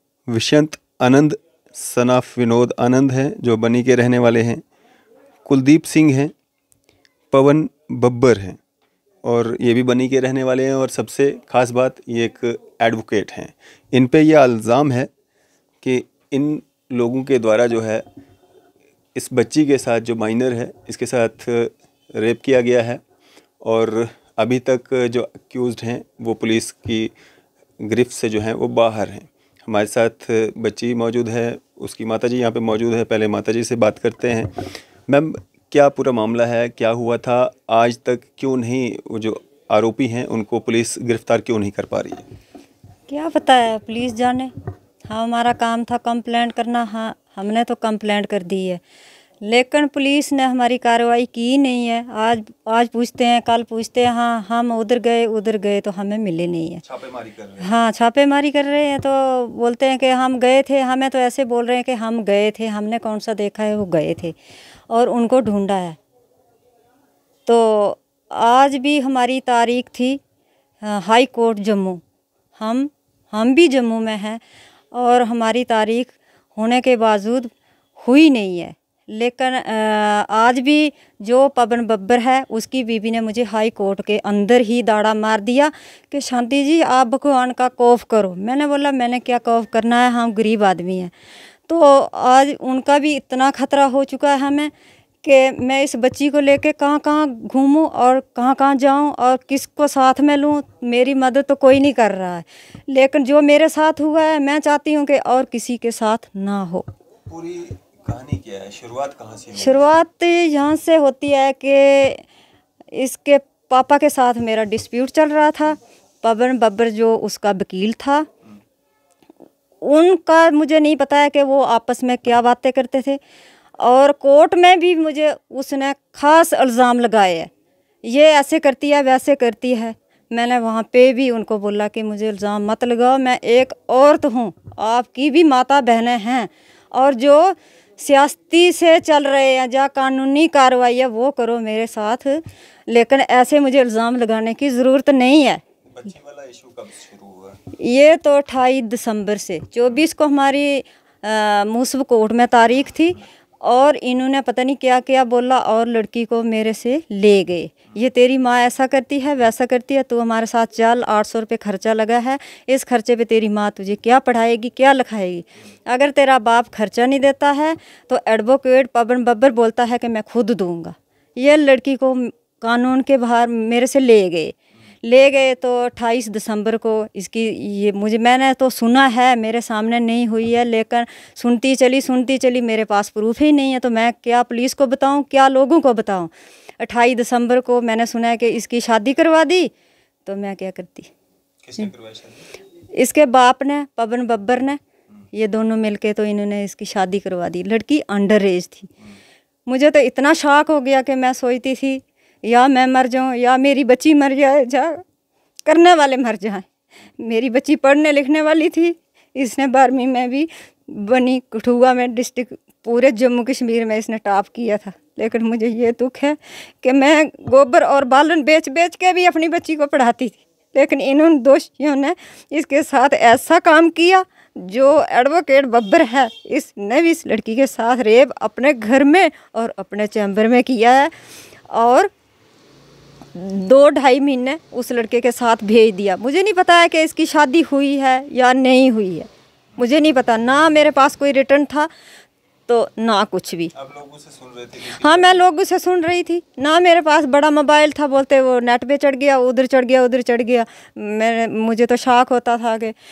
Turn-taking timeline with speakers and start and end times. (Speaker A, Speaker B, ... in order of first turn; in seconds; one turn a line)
Speaker A: 0.3-4.6
Speaker A: 5.5-6.3
Speaker A: 7.3-8.6
Speaker A: 9.2-15.1
Speaker A: 15.8-18.1
Speaker A: 19.1-23.0
Speaker A: 23.6-27.1
Speaker A: 27.8-42.3
Speaker B: 43.1-44.5
Speaker B: 45.1-48.8
Speaker B: 49.4-56.8
Speaker A: 56.8-57.7
Speaker B: 57.6-64.3
Speaker B: 64.9-66.0
Speaker B: 67.5-70.2
Speaker B: 70.8-72.0
Speaker B: 72.6-74.4
Speaker B: 74.9-91.1
Speaker B: 91.7-94.7
Speaker B: 95.2-106.9
Speaker A: 107.3-109.9
Speaker B: 109.6-112.2
Speaker B: 112.9-118.3
Speaker B: 119.8-123.2
Speaker B: 123.8-127.5
Speaker B: 128.0-145.6
Speaker A: 145.9-147.6
Speaker B: 147.8-189.7
Speaker B: 190.3-191.1
Speaker A: 191.6-192.5
Speaker B: 192.9-194.8
Speaker B: 195.3-198.9
Speaker B: 199.7-205.0
Speaker B: 205.7-231.1
Speaker B: 231.7-232.1
Speaker B: 233.3-241.9
Speaker B: 242.7-243.7
Speaker A: 243.7-245.4
Speaker B: 244.9-252.9